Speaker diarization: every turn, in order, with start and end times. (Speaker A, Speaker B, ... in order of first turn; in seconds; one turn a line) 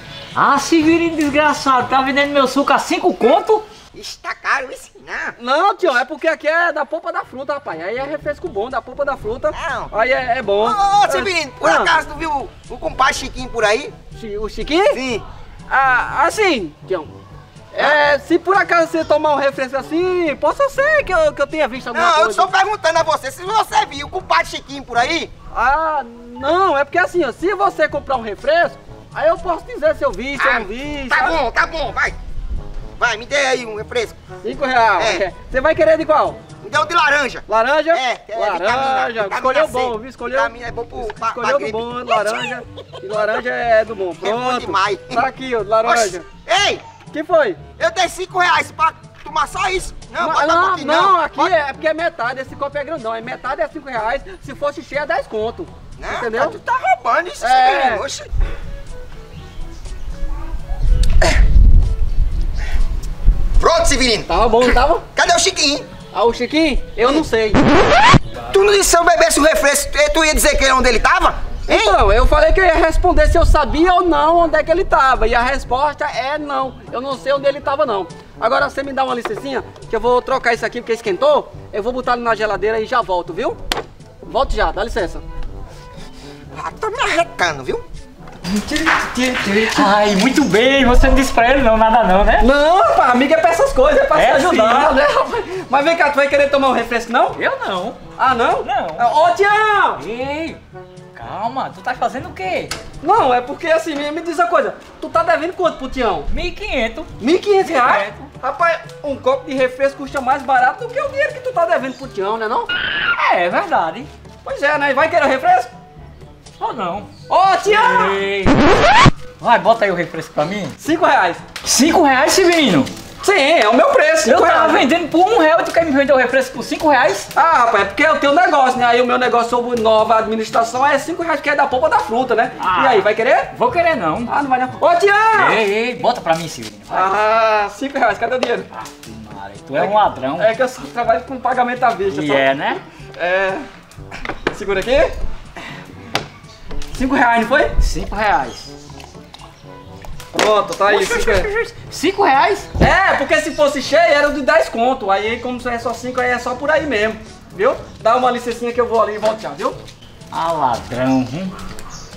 Speaker A: 0.3-3.6
Speaker B: 3.9-5.3
Speaker C: 5.4-11.9
Speaker B: 9.5-9.9
Speaker B: 10.6-13.9
Speaker C: 14.1-15.0
Speaker B: 14.9-15.2
Speaker C: 15.7-17.1
Speaker C: 17.7-22.5
Speaker B: 21.9-25.3
Speaker C: 25.5-31.4
Speaker B: 30.4-32.2
Speaker B: 33.0-34.2
Speaker C: 34.4-36.4
Speaker B: 35.0-35.2
Speaker B: 36.6-42.5
Speaker C: 37.5-46.2
Speaker B: 44.2-45.2
Speaker B: 45.8-46.8
Speaker C: 47.1-47.6
Speaker B: 47.8-51.5
Speaker C: 50.2-56.6
Speaker B: 56.0-58.3
Speaker C: 57.4-58.0
Speaker B: 63.6-65.8
Speaker C: 64.3-65.0
Speaker C: 66.1-67.6
Speaker B: 68.4-72.0
Speaker C: 71.7-83.6
Speaker C: 84.2-85.2
Speaker B: 86.5-87.8
Speaker C: 88.5-89.9
Speaker A: 89.5-92.5
Speaker C: 92.4-97.4
Speaker A: 94.1-94.9
Speaker A: 97.3-98.0
Speaker C: 98.2-100.0
Speaker A: 98.6-99.0
Speaker A: 100.0-100.6
Speaker A: 101.1-102.7
Speaker C: 103.0-106.3
Speaker A: 106.3-107.1
Speaker C: 107.2-112.7
Speaker A: 107.6-108.3
Speaker A: 113.1-114.1
Speaker C: 114.4-115.7
Speaker A: 116.6-117.1
Speaker C: 117.3-118.2
Speaker A: 117.7-118.6
Speaker A: 119.4-120.8
Speaker C: 120.8-121.4
Speaker A: 121.6-122.9
Speaker C: 123.2-124.8
Speaker A: 124.2-127.3
Speaker C: 127.3-133.5
Speaker A: 132.6-134.3
Speaker C: 134.3-135.6
Speaker A: 135.3-137.1
Speaker C: 136.9-138.7
Speaker A: 138.8-140.5
Speaker C: 139.7-142.5
Speaker A: 142.1-142.8
Speaker C: 143.2-143.6
Speaker C: 144.5-145.1
Speaker C: 146.9-147.7
Speaker A: 147.8-148.7
Speaker C: 150.3-151.5
Speaker A: 150.9-152.7
Speaker C: 152.8-159.8
Speaker A: 160.3-161.5